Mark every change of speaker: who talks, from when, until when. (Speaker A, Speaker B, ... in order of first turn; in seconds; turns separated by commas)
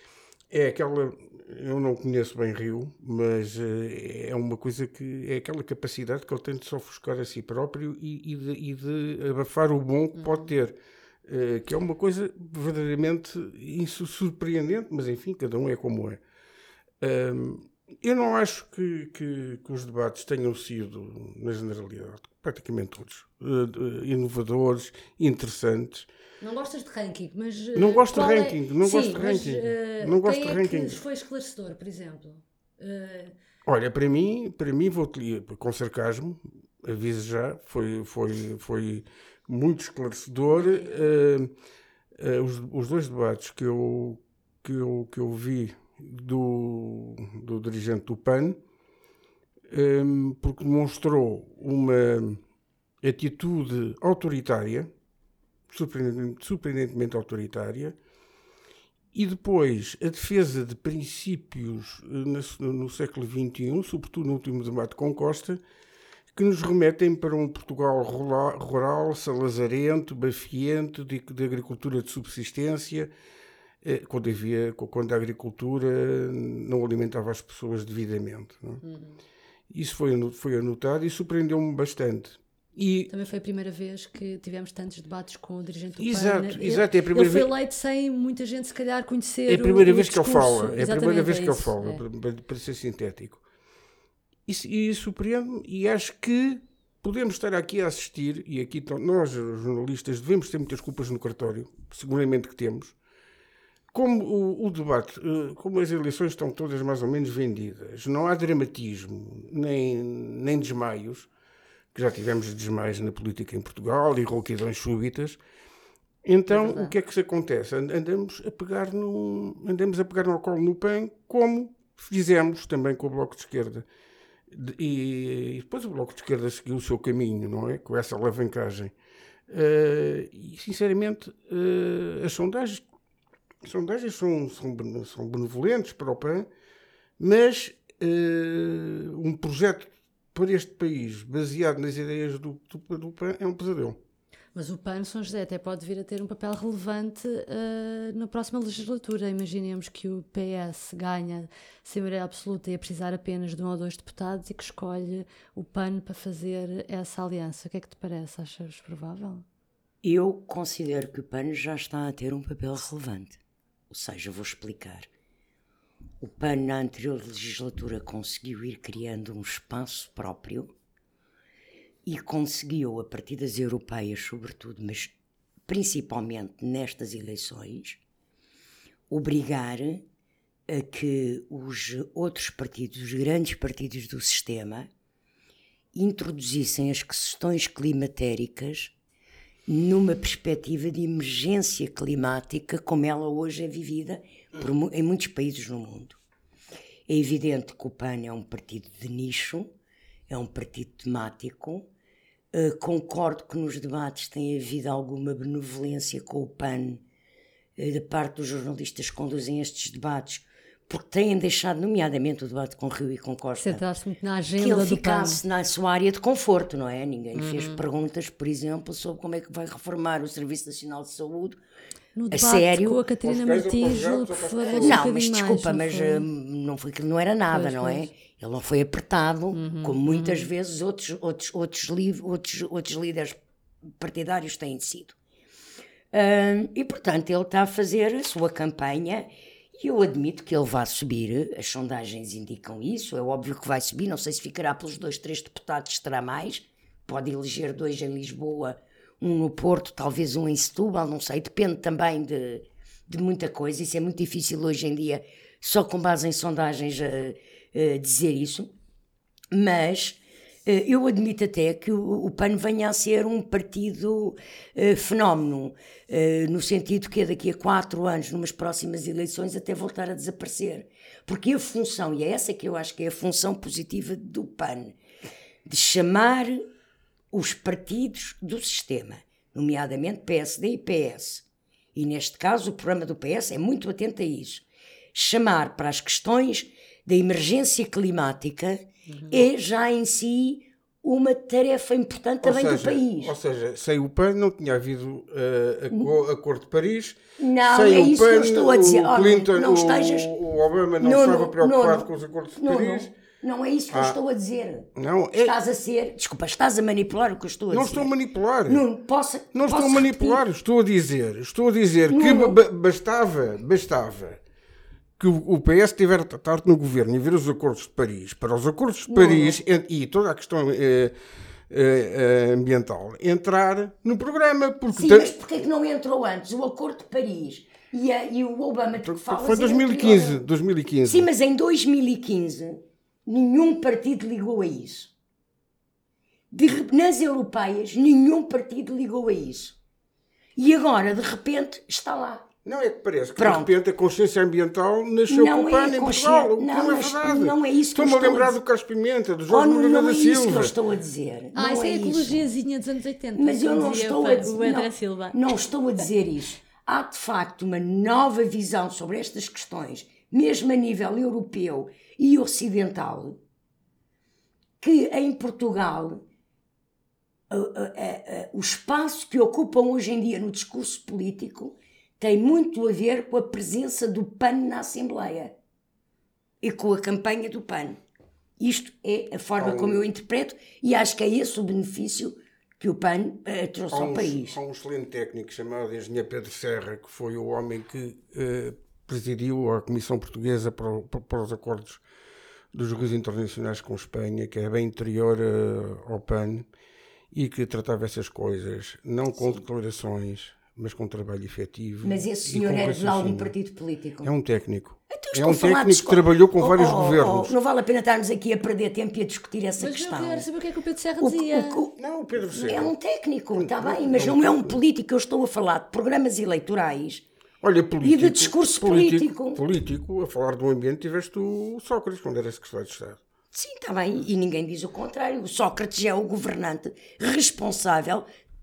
Speaker A: 0.5-16.2, Speaker A: 17.0-26.1, Speaker B: 26.4-33.4, Speaker A: 27.7-31.0, Speaker A: 33.6-41.5, Speaker B: 40.5-41.0, Speaker A: 42.1-48.6, Speaker A: 49.7-52.4, Speaker A: 53.0-54.9, Speaker A: 55.7-58.0, Speaker A: 59.1-65.6, Speaker A: 66.3-73.1, Speaker A: 73.8-78.8, Speaker B: 78.8-79.2, Speaker A: 79.7-83.1, Speaker B: 83.1-92.0, Speaker A: 86.0-87.5, Speaker A: 89.5-93.4, Speaker A: 94.5-103.0, Speaker A: 103.9-111.3, Speaker A: 111.9-115.4, Speaker A: 116.2-123.8, Speaker B: 116.5-116.9, Speaker A: 124.5-128.9, Speaker A: 129.5-132.8, Speaker A: 133.6-136.5, Speaker A: 137.2-144.0, Speaker B: 144.5-159.4, Speaker C: 160.0-165.1, Speaker C: 166.2-170.7, Speaker C: 172.1-175.1, Speaker C: 175.7-178.0, Speaker C: 179.1-180.0, Speaker C: 180.7-184.9, Speaker C: 185.9-188.9, Speaker C: 189.7-196.2, Speaker C: 197.1-199.7, Speaker C: 200.3-201.9, Speaker C: 202.5-207.0, Speaker C: 207.8-213.8, Speaker B: 213.6-215.4, Speaker C: 214.6-221.6, Speaker B: 217.3-217.8, Speaker B: 222.1-226.2, Speaker C: 222.3-223.0, Speaker A: 223.2-225.0, Speaker C: 224.7-233.4, Speaker B: 227.5-228.1, Speaker B: 229.5-230.5, Speaker C: 234.0-235.2, Speaker C: 236.1-258.7, Speaker C: 259.5-274.9, Speaker C: 275.6-276.6, Speaker C: 277.3-293.3, Speaker B: 289.1-289.4, Speaker A: 292.4-303.1, Speaker C: 297.4-300.3, Speaker C: 301.0-308.1, Speaker A: 303.9-304.2, Speaker A: 304.9-305.6, Speaker A: 307.7-308.8, Speaker C: 308.7-310.4, Speaker A: 309.5-314.4, Speaker C: 312.1-312.6, Speaker A: 315.2-321.1, Speaker C: 319.1-319.6, Speaker A: 321.7-325.3, Speaker C: 324.9-330.4, Speaker A: 329.0-331.3, Speaker C: 331.0-335.1, Speaker C: 336.5-339.8, Speaker C: 340.6-342.5, Speaker A: 342.6-350.7, Speaker C: 343.4-343.7, Speaker C: 345.3-348.5, Speaker C: 349.5-352.4, Speaker B: 351.5-355.4, Speaker C: 353.4-363.4, Speaker C: 364.8-366.2, Speaker C: 367.5-375.5, Speaker C: 376.6-378.0, Speaker C: 378.6-384.6, Speaker A: 379.6-380.1, Speaker A: 383.9-392.0, Speaker A: 392.7-396.7, Speaker A: 397.3-403.5, Speaker C: 402.0-404.3, Speaker A: 404.2-407.5, Speaker C: 405.1-410.5, Speaker B: 409.8-411.8, Speaker C: 411.2-417.2, Speaker A: 412.0-412.9, Speaker A: 413.5-414.8, Speaker A: 417.6-423.2, Speaker C: 418.0-419.6, Speaker C: 423.5-428.2